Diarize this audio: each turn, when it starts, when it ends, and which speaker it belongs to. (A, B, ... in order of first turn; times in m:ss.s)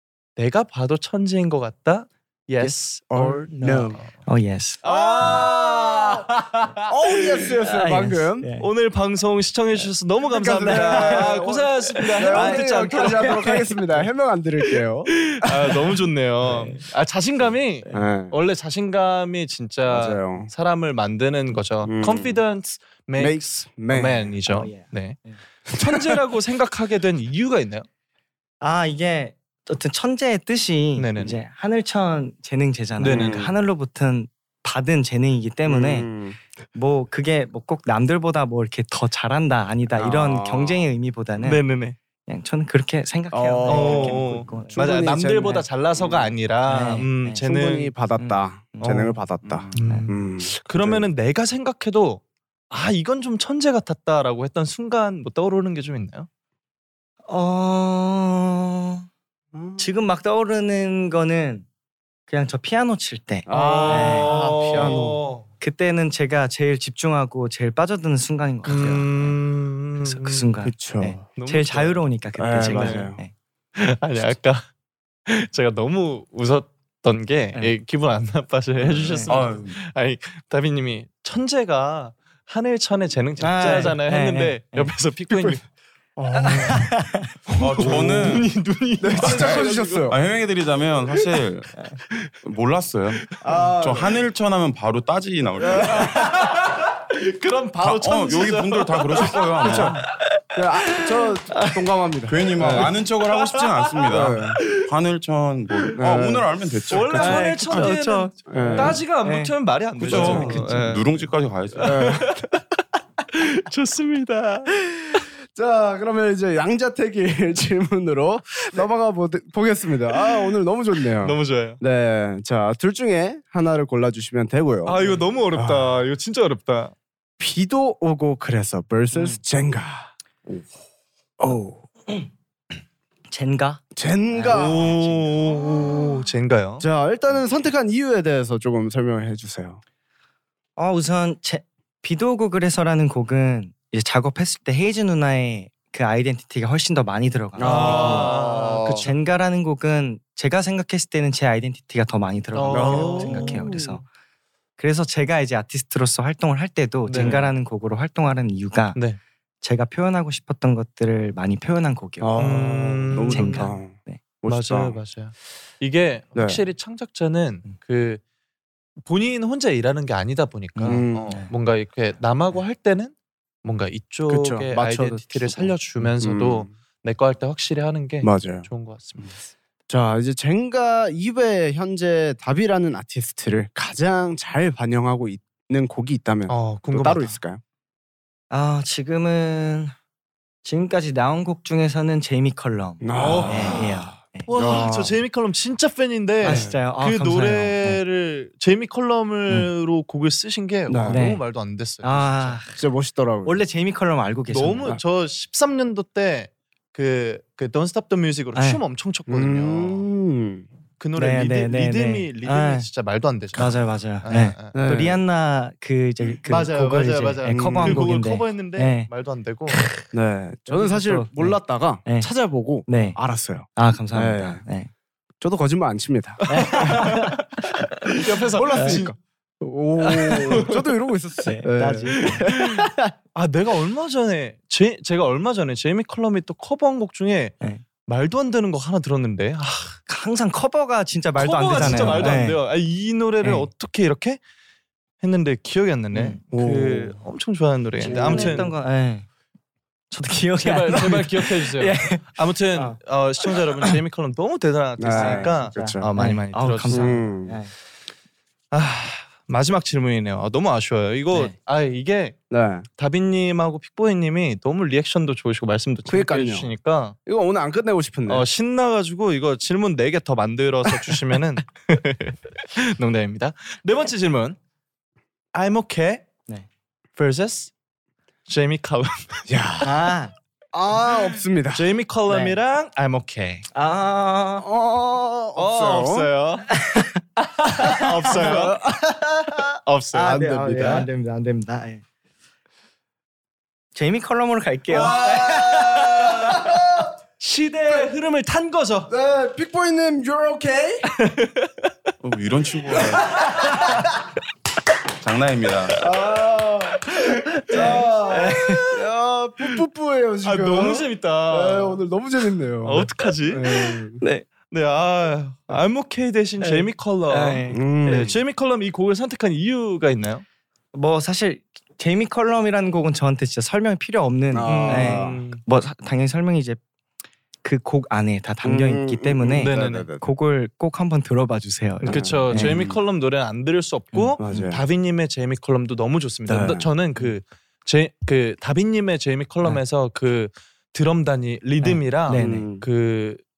0:00.4-0:04.2 A
0:02.6-0:04.0 B
0:03.5-0:04.8 C
0:04.8-0:07.5 A
0:04.8-0:06.3 B
0:06.8-0:08.5 B
0:07.6-0:08.7 C
0:08.6-0:13.6 A
0:10.3-0:15.9 B
0:10.6-0:13.7 C
0:15.2-0:27.9 A
0:16.4-0:16.8 C
0:17.8-0:18.1 C
0:17.9-0:18.4 B
0:19.9-0:20.5 B
0:21.8-0:22.4 B
0:23.2-0:24.3 B
0:24.4-0:25.4 C
0:28.6-0:36.1 C
0:31.0-0:31.4 A
0:33.0-0:33.5 A
0:33.0-0:33.5 B
0:35.7-0:36.4 B
0:36.7-0:41.6 C
0:40.0-0:40.7 B
0:41.4-0:42.0 A
0:42.2-0:45.6 C
0:43.3-0:46.3 B
0:43.6-0:47.9 A
0:46.6-0:47.4 C
0:47.4-0:51.1 B
0:48.2-0:49.2 C
0:48.8-0:49.2 A
0:49.4-0:49.8 D
0:49.7-0:56.3 A
0:49.8-0:50.1 C
0:57.3-0:59.0 C
0:59.5-0:59.9 B
0:59.8-1:01.6 C
1:02.3-1:05.0 C
1:03.5-1:05.2 B
1:03.5-1:05.4 A
1:05.6-1:09.4 C
1:08.6-1:10.5 A
1:10.0-1:13.3 C
1:10.6-1:11.2 B
1:11.4-1:12.0 A
1:12.4-1:13.2 B
1:12.6-1:13.0 A
1:13.8-1:14.7 A
1:15.3-1:25.6 A
1:18.9-1:19.3 C
1:19.3-1:19.8 D
1:23.4-1:24.9 C
1:23.6-1:23.9 B
1:26.2-1:27.0 B
1:26.3-1:27.3 C
1:27.5-1:30.1 A
1:27.6-1:28.5 D
1:27.8-1:28.4 B
1:29.0-1:30.2 B
1:29.2-1:31.7 D
1:32.4-1:36.2 D
1:33.3-1:33.7 A
1:33.4-1:34.2 B
1:35.6-1:36.2 B
1:35.8-1:40.0 A
1:37.8-1:40.0 D
1:39.6-1:40.0 B
1:40.5-1:42.9 B
1:40.9-1:41.9 C
1:42.3-1:47.8 D
1:42.6-1:44.9 A
1:44.1-1:44.6 B
1:46.0-1:46.4 B
1:46.9-1:51.2 A
1:47.2-1:49.5 C
1:48.5-1:49.0 B
1:50.0-1:52.2 D
1:50.0-1:50.6 B
1:50.1-1:50.6 C
1:51.8-1:52.6 A
1:51.8-1:52.4 B
1:53.3-1:55.2 A
1:55.1-2:06.0 B
2:01.2-2:01.8 A
2:04.8-2:06.9 A
2:07.4-2:10.1 B
2:09.1-2:09.4 C
2:11.4-2:12.1 B
2:13.3-2:15.9 C
2:13.9-2:15.1 B
2:14.5-2:16.8 A
2:16.8-2:19.8 B
2:20.8-2:34.0 C
2:27.6-2:29.1 B
2:27.6-2:29.1 A
2:32.5-2:33.8 A
2:32.7-2:34.0 B
2:34.8-2:39.0 C
2:37.1-2:37.4 A
2:37.1-2:37.5 B
2:39.6-2:44.2 C
2:42.2-2:45.0 B
2:42.4-2:43.7 A
2:44.5-2:48.2 A
2:46.3-2:46.6 B
2:49.0-2:59.3 A
2:50.8-2:51.5 C
2:50.8-2:51.3 B
2:54.3-2:56.7 B
2:58.2-2:58.7 B
2:59.9-3:07.6 B
3:06.5-3:07.4 A
3:08.5-3:09.9 C
3:10.6-3:14.9 C
3:13.0-3:15.2 B
3:13.1-3:22.6 A
3:16.4-3:18.0 C
3:16.4-3:16.8 B
3:20.9-3:21.3 B
3:21.1-3:21.4 C
3:22.0-3:22.8 C
3:22.8-3:23.6 B
3:23.4-3:25.0 C
3:24.5-3:30.1 A
3:28.5-3:28.8 C
3:29.3-3:30.7 B
3:31.0-3:34.8 A
3:31.1-3:32.9 C
3:33.5-3:39.1 C
3:34.7-3:35.2 B
3:36.5-3:39.8 A
3:37.5-3:38.1 B
3:40.1-3:44.6 B
3:40.7-3:42.3 C
3:42.8-3:43.2 C
3:43.8-3:44.9 C
3:45.4-3:47.3 B
3:46.5-3:48.0 C
3:46.5-3:49.1 A
3:48.3-3:52.8 B
3:48.7-3:49.0 C
3:50.0-3:50.9 A
3:51.4-3:52.5 C
3:52.1-4:00.0 A
4:00.1-4:02.6 C
4:01.4-4:04.4 A
4:01.8-4:02.4 B
4:03.4-4:03.7 C
4:05.2-4:08.7 A
4:06.1-4:06.4 C
4:06.5-4:07.2 B
4:08.0-4:09.2 C
4:08.0-4:08.7 B
4:10.1-4:13.0 C
4:10.6-4:17.2 A
4:15.0-4:16.1 B
4:15.1-4:17.7 C
4:16.9-4:17.6 B
4:18.7-4:22.4 A
4:22.5-4:22.8 B
4:23.0-4:27.2 A
4:26.1-4:26.7 B
4:27.2-4:28.4 B
4:28.3-4:34.6 A
4:35.5-4:36.2 A
4:37.2-4:37.7 A
4:38.5-4:39.5 A
4:39.5-4:40.1 B
4:39.8-4:40.3 C
4:40.7-4:41.9 B
4:41.7-4:43.6 A
4:42.3-4:42.6 C
4:43.7-4:44.6 C
4:44.6-4:46.3 B
4:45.6-4:46.7 A
4:46.7-4:47.2 C
4:47.4-4:48.7 A
4:47.8-4:48.6 C
4:47.9-4:51.1 B
4:49.8-4:51.1 A
4:50.1-4:52.0 C
4:53.9-4:56.3 C
4:54.9-4:57.1 B
4:54.9-4:56.6 A
4:57.4-4:59.1 A
4:59.1-5:01.1 B
5:01.4-5:01.7 A
5:02.2-5:03.4 D
5:03.1-5:04.0 A
5:05.2-5:06.0 D
5:06.0-5:14.2 B
5:07.0-5:08.7 A
5:07.7-5:08.9 C
5:10.4-5:12.0 A
5:12.8-5:14.0 A
5:14.2-5:14.5 C
5:14.7-5:20.4 A
5:16.6-5:17.9 C
5:17.7-5:18.4 B
5:20.9-5:26.8 C
5:24.5-5:25.4 B
5:24.6-5:25.6 A
5:27.6-5:32.8 C
5:28.6-5:30.3 B
5:29.6-5:30.1 A
5:32.0-5:43.4 A
5:32.1-5:32.9 B
5:34.1-5:34.7 C
5:34.4-5:34.8 B
5:36.4-5:36.9 B
5:41.8-5:42.7 C
5:42.3-5:42.8 B